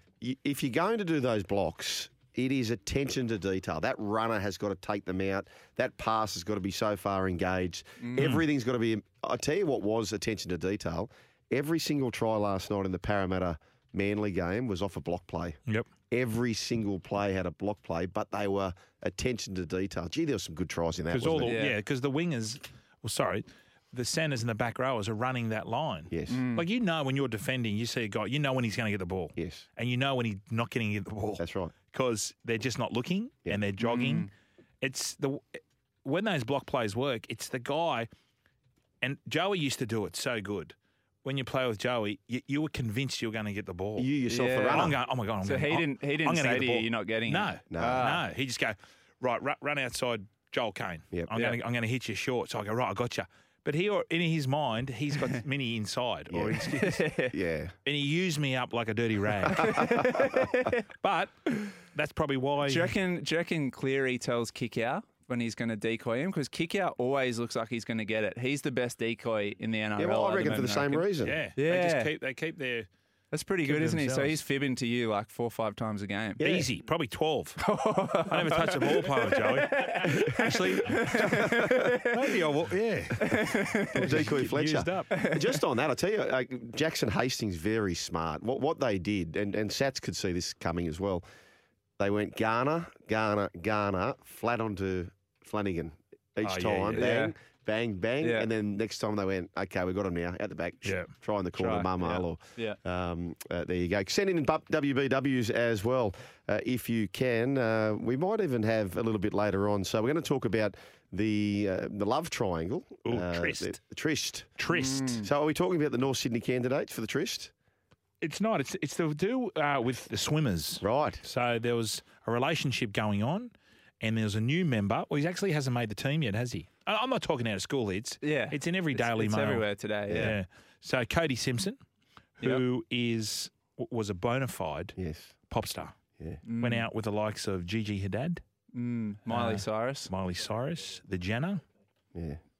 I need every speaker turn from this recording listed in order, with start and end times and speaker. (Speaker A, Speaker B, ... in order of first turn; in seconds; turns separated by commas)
Speaker A: 0.2-15.6, Speaker B: 8.0-8.3, Speaker C: 8.2-8.4, Speaker A: 16.1-21.6, Speaker C: 21.1-34.3, Speaker B: 21.4-21.8, Speaker A: 26.1-26.4, Speaker B: 26.3-26.6, Speaker A: 29.4-29.6, Speaker A: 31.4-31.7, Speaker B: 33.8-34.3, Speaker C: 34.8-38.1, Speaker C: 39.0-44.1, Speaker A: 44.0-45.0, Speaker B: 44.3-44.9, Speaker C: 44.7-57.0, Speaker B: 45.4-48.2, Speaker A: 47.7-48.2, Speaker B: 51.3-51.6, Speaker A: 56.3-56.6, Speaker B: 56.7-57.3, Speaker A: 57.3-57.8, Speaker C: 57.8-60.4, Speaker B: 59.5-60.8, Speaker C: 61.0-62.9, Speaker B: 62.6-72.1, Speaker A: 70.0-71.4, Speaker C: 71.2-72.9, Speaker B: 73.3-76.5, Speaker C: 73.6-74.4, Speaker A: 76.4-76.7, Speaker C: 76.4-77.6, Speaker B: 77.6-82.2, Speaker C: 78.3-85.1, Speaker B: 83.2-84.2, Speaker A: 84.0-91.2, Speaker B: 85.1-85.6, Speaker A: 92.0-114.5, Speaker C: 96.4-97.1, Speaker B: 97.0-97.3, Speaker B: 98.2-98.5, Speaker C: 100.8-101.1, Speaker B: 101.6-102.8, Speaker C: 113.0-113.7, Speaker C: 114.6-115.2, Speaker B: 114.7-115.3, Speaker A: 115.2-117.5, Speaker C: 118.2-131.8, Speaker A: 120.8-121.2, Speaker B: 128.2-130.3, Speaker A: 130.1-130.3, Speaker C: 132.4-134.9, Speaker A: 134.9-135.3, Speaker C: 135.5-135.9, Speaker B: 136.4-136.8, Speaker C: 136.6-138.4, Speaker B: 138.7-140.1, Speaker C: 139.3-141.6, Speaker A: 142.1-142.4